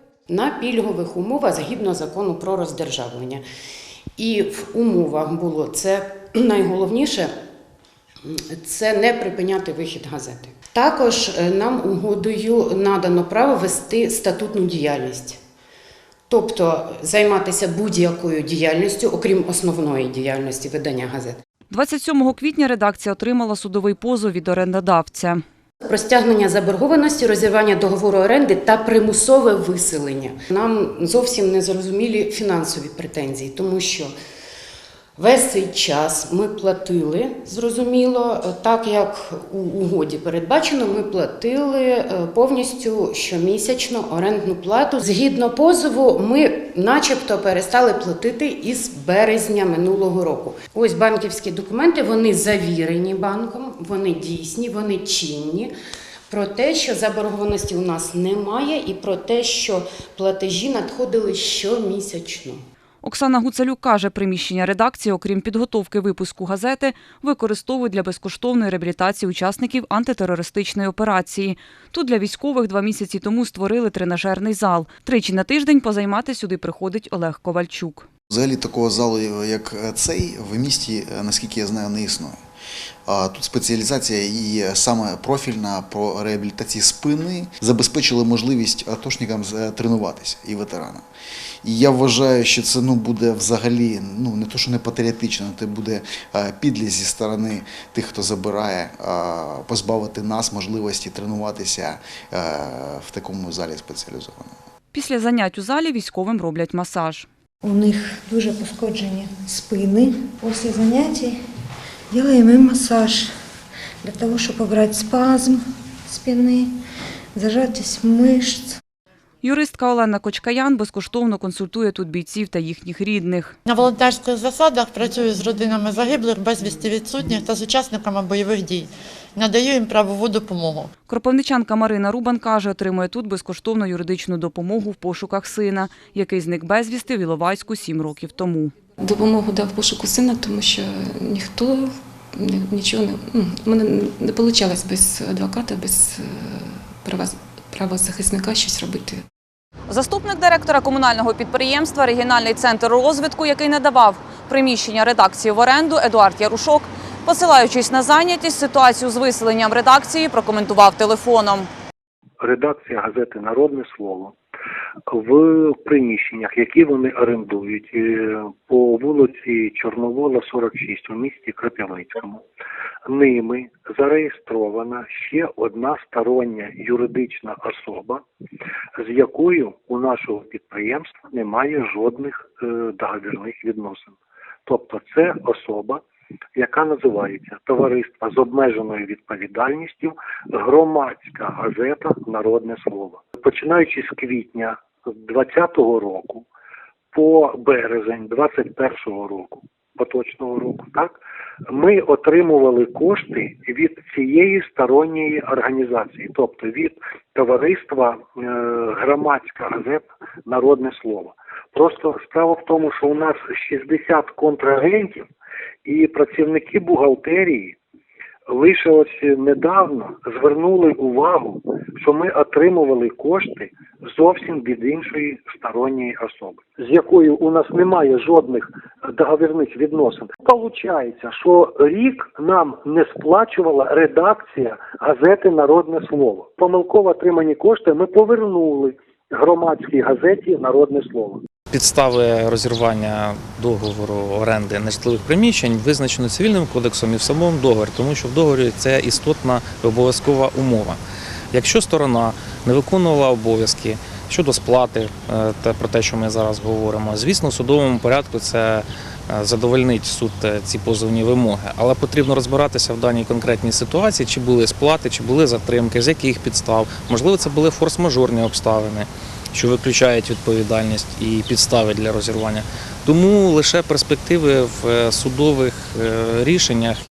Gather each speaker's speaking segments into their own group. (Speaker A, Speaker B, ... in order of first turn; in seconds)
Speaker A: 0.3-3.4, 4.2-7.3, 8.2-15.4, 16.3-21.4, 25.8-34.1, 35.1-55.7, 56.3-62.6
Speaker B: 21.7-25.4, 63.0-78.1, 104.9-107.3, 119.4-123.5, 131.1-138.7, 149.9-161.7
Speaker C: 78.3-82.4, 83.0-91.0, 91.6-104.5
Speaker D: 107.6-111.4, 112.1-113.3, 114.0-116.7, 117.3-118.8
Speaker E: 123.7-130.9
Speaker F: 139.0-149.2
Speaker G: 162.4-164.3, 165.1-172.4, 173.1-178.2, 179.0-186.0, 186.6-196.5, 197.1-201.2, 201.7-215.2, 215.8-217.8, 218.5-241.4
Speaker H: 241.7-251.0, 251.5-277.0